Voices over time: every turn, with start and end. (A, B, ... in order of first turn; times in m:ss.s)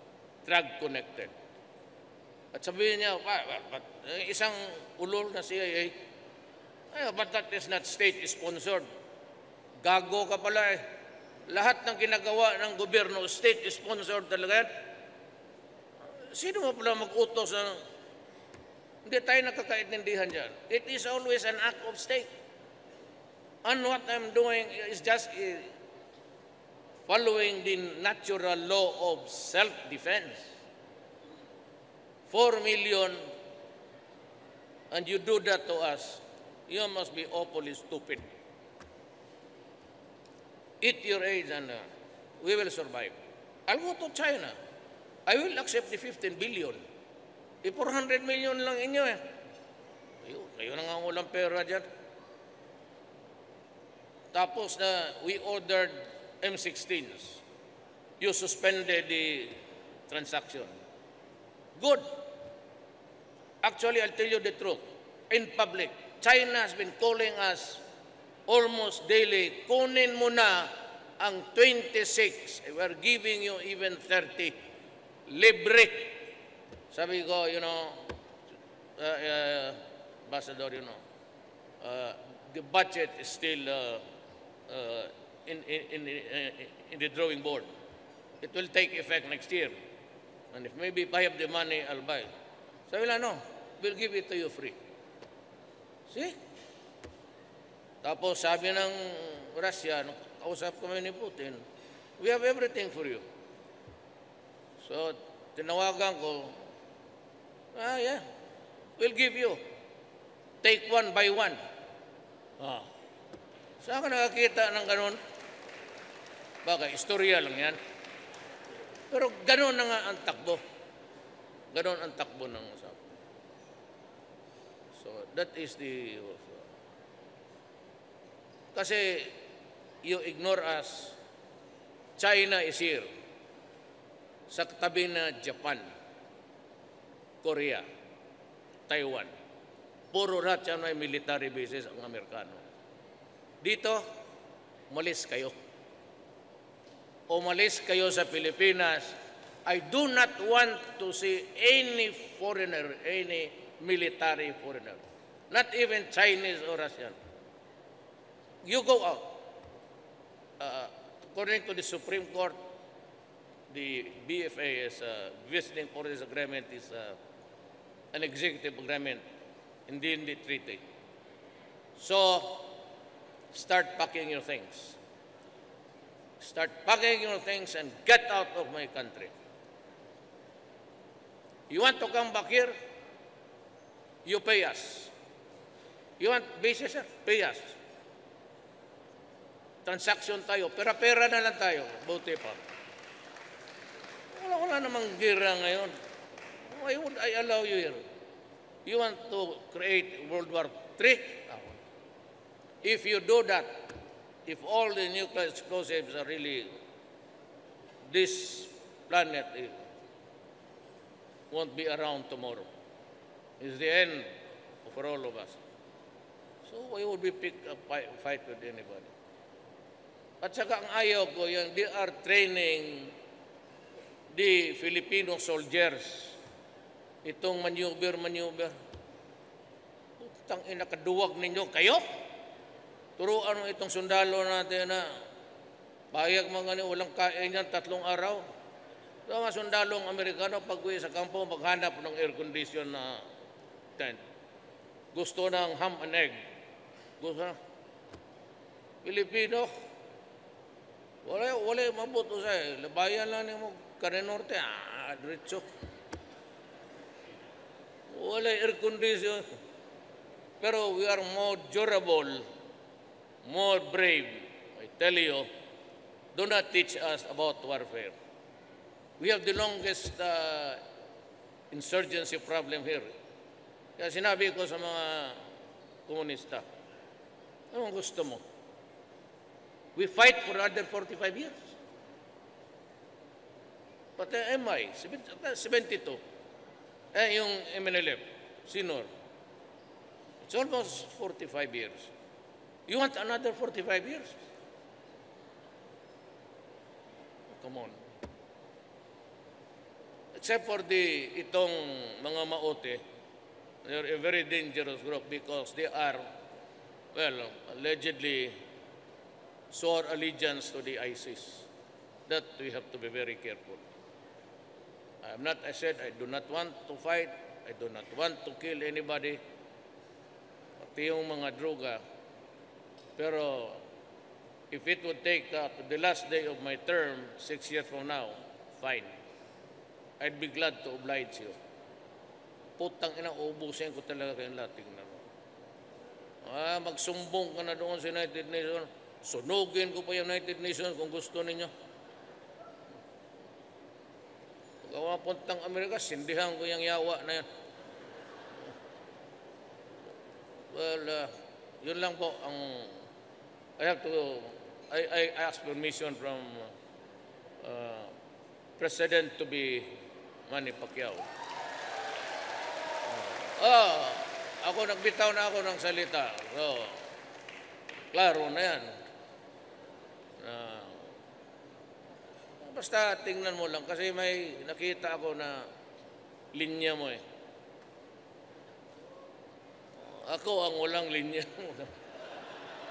0:00.4-0:01.3 A
0:02.5-0:06.0 A
0:06.9-0:08.9 A
0:09.8-0:10.8 A
0:11.5-0:14.7 A
0:16.2-0:17.8 A
0:19.0-0:22.3 A
0:23.6-0:25.7 A
0:27.1-0:30.5 A
0:32.3-0:33.2 A
0:34.9-0:38.3 A
0:40.8-0:41.8 A
0:42.4-0:44.6 A
0:45.3-0:46.8 A
0:47.6-0:49.2 A
0:50.2-0:51.9 A
0:54.3-0:57.4 A
0:58.2-1:00.7 A
1:01.8-1:02.1 A
1:03.6-1:07.8 A
1:08.5-1:14.6 A
1:15.3-1:16.3 A
1:16.9-1:18.2 A
1:19.0-1:21.0 A
1:21.8-1:24.0 A
1:24.7-1:27.7 A
1:28.4-1:29.8 A
1:30.5-1:32.3 A
1:32.9-1:34.8 A
1:36.1-1:36.4 A
1:38.0-1:41.6 A
1:42.2-1:43.2 A
1:44.8-1:46.6 A
1:47.7-1:48.2 A
1:49.0-1:49.6 A
1:50.6-1:51.6 A
1:52.6-1:52.9 A
1:53.8-1:55.2 A
1:56.6-1:57.8 A
1:59.1-2:00.6 A
2:01.7-2:03.0 A
2:04.9-2:06.6 A
2:08.7-2:09.4 A
2:10.0-2:11.2 A
2:12.2-2:13.1 A
2:14.5-2:15.9 A
2:17.4-2:17.9 A
2:18.9-2:19.3 A
2:20.1-2:22.6 A
2:23.6-2:24.0 A
2:24.9-2:25.5 A
2:27.3-2:37.2 A
2:38.6-2:39.4 A
2:40.6-2:42.6 A
2:43.7-2:47.2 A
2:48.1-2:49.2 A
2:49.9-2:50.8 A
2:52.0-2:52.8 A
2:53.5-2:55.0 A
2:56.4-2:59.3 A
3:01.7-3:02.8 A
3:04.2-3:05.1 A
3:06.2-3:07.8 A
3:09.8-3:12.6 A
3:14.4-3:15.9 A
3:16.7-3:18.0 A
3:18.8-3:21.8 A
3:22.8-3:23.9 A
3:24.5-3:26.8 A
3:28.1-3:29.8 A
3:31.5-3:32.7 A
3:33.6-3:35.6 A
3:36.6-3:39.1 A
3:40.4-3:43.2 A
3:44.3-3:46.4 A
3:47.2-3:48.7 A
3:50.2-3:52.0 A
3:53.2-3:55.1 A
3:56.1-3:58.4 A
3:59.3-4:03.3 A
4:05.1-4:06.4 A
4:07.2-4:07.6 A
4:09.0-4:09.7 A
4:11.2-4:15.6 A
4:18.1-4:19.6 A
4:20.6-4:22.5 A
4:23.4-4:25.5 A
4:26.3-4:28.2 A
4:29.2-4:30.8 A
4:31.7-4:33.1 A
4:34.0-4:35.5 A
4:36.1-4:36.6 A
4:37.7-4:38.4 A
4:40.0-4:41.7 A
4:44.2-4:46.2 A
4:47.1-4:49.1 A
4:50.4-4:52.1 A
4:52.9-4:54.4 A
4:57.5-4:58.0 A
5:00.4-5:03.0 A
5:03.8-5:06.3 A
5:07.1-5:08.6 A
5:09.7-5:11.7 A
5:12.3-5:13.8 A
5:15.2-5:19.4 A
5:20.8-5:22.0 A
5:23.2-5:23.8 A
5:24.7-5:29.1 A
5:30.2-5:31.6 A
5:32.8-5:35.2 A
5:36.4-5:41.7 A
5:44.8-5:47.5 A
5:50.7-5:53.0 A
5:53.8-5:56.7 A
5:57.6-5:58.2 A
5:58.8-6:01.3 A
6:03.2-6:07.0 A
6:08.1-6:08.9 A
6:10.4-6:11.1 A
6:12.6-6:15.7 A
6:16.5-6:17.2 A
6:20.0-6:21.9 A